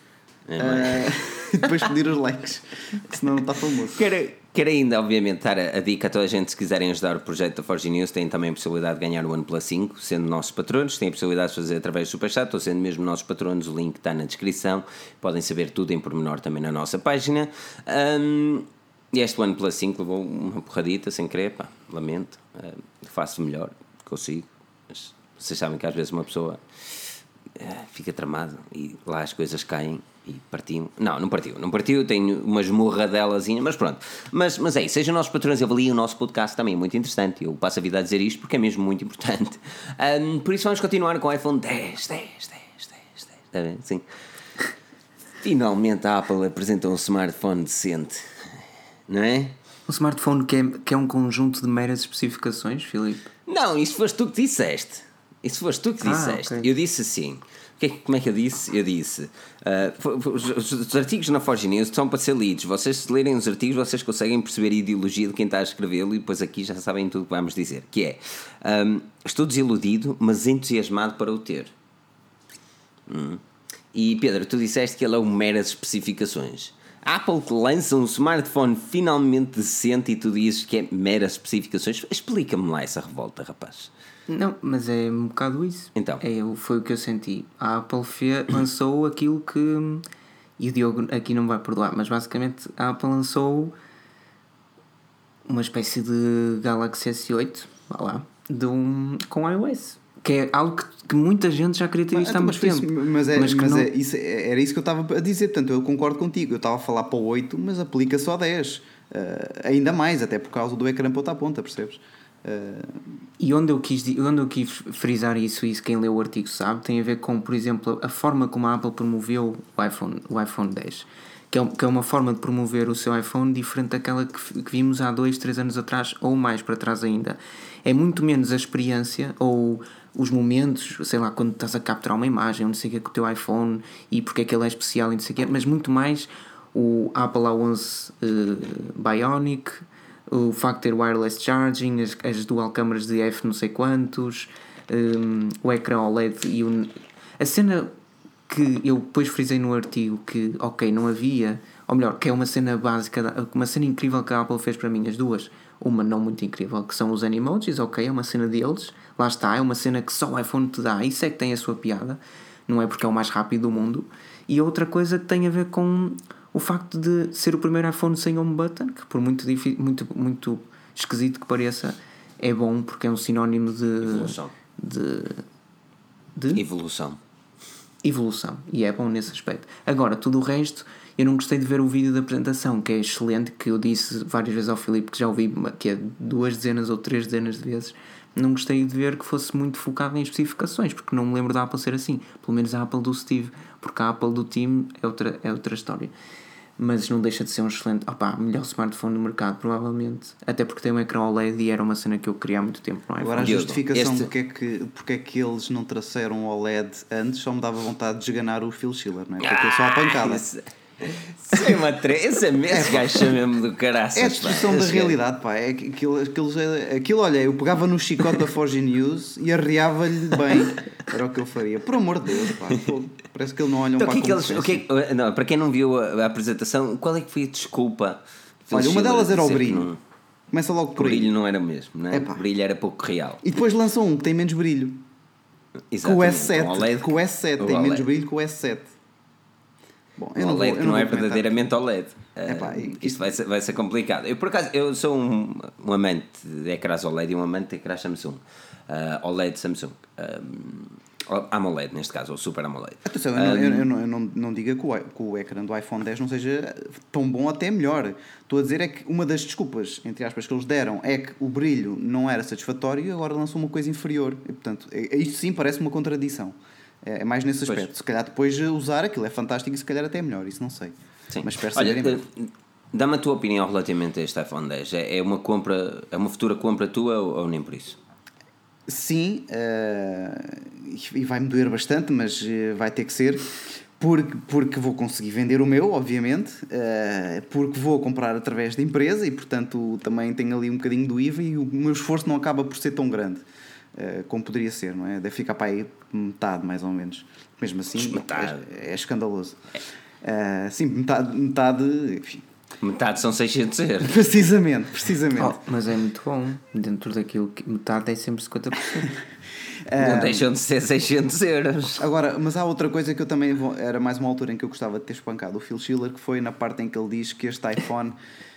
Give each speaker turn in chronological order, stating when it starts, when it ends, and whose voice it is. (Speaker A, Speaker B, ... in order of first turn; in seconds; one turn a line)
Speaker A: 0.5-1.8
Speaker B: 0.6-4.1
Speaker A: 3.9-44.0
Speaker A: 45.4-48.2
Speaker A: 49.1-49.5
Speaker C: 49.9-53.3
Speaker A: 53.5-71.7
Speaker C: 56.0-56.7
Speaker A: 73.1-73.4
Speaker A: 73.9-83.9
Speaker C: 84.3-90.0
Speaker A: 86.0-86.2
Speaker C: 90.6-93.7
Speaker C: 95.5-103.9
Speaker B: 102.1-113.0
Speaker C: 113.4-147.9
Speaker C: 148.5-175.4
Speaker A: 174.0-174.5
Speaker C: 176.4-176.6
Speaker A: 176.5-177.2
Speaker C: 178.0-196.1
Speaker C: 196.8-203.7
Speaker B: 203.2-210.4
Speaker A: 203.4-204.3
Speaker A: 209.4-215.2
Speaker B: 212.7-213.3
Speaker B: 214.1-224.8
Speaker A: 224.0-230.0
Speaker B: 228.7-229.9
Speaker B: 230.5-231.3
Speaker A: 231.0-233.4
Speaker B: 232.1-232.4
Speaker B: 233.4-235.0
Speaker A: 235.9-238.1
Speaker B: 236.0-238.9
Speaker B: 240.2-241.5
Speaker A: 240.4-253.9
Speaker B: 242.4-243.4
Speaker B: 253.1-272.2
Speaker A: 271.3-278.0
Speaker B: 278.9-299.6
Speaker A: 297.9-298.6
Speaker B: 300.2-302.4
Speaker A: 302.8-304.2
Speaker B: 304.0-305.6
Speaker C: 305.4-309.1
Speaker B: 309.9-310.5
Speaker A: 310.0-312.0
Speaker B: 312.0-318.2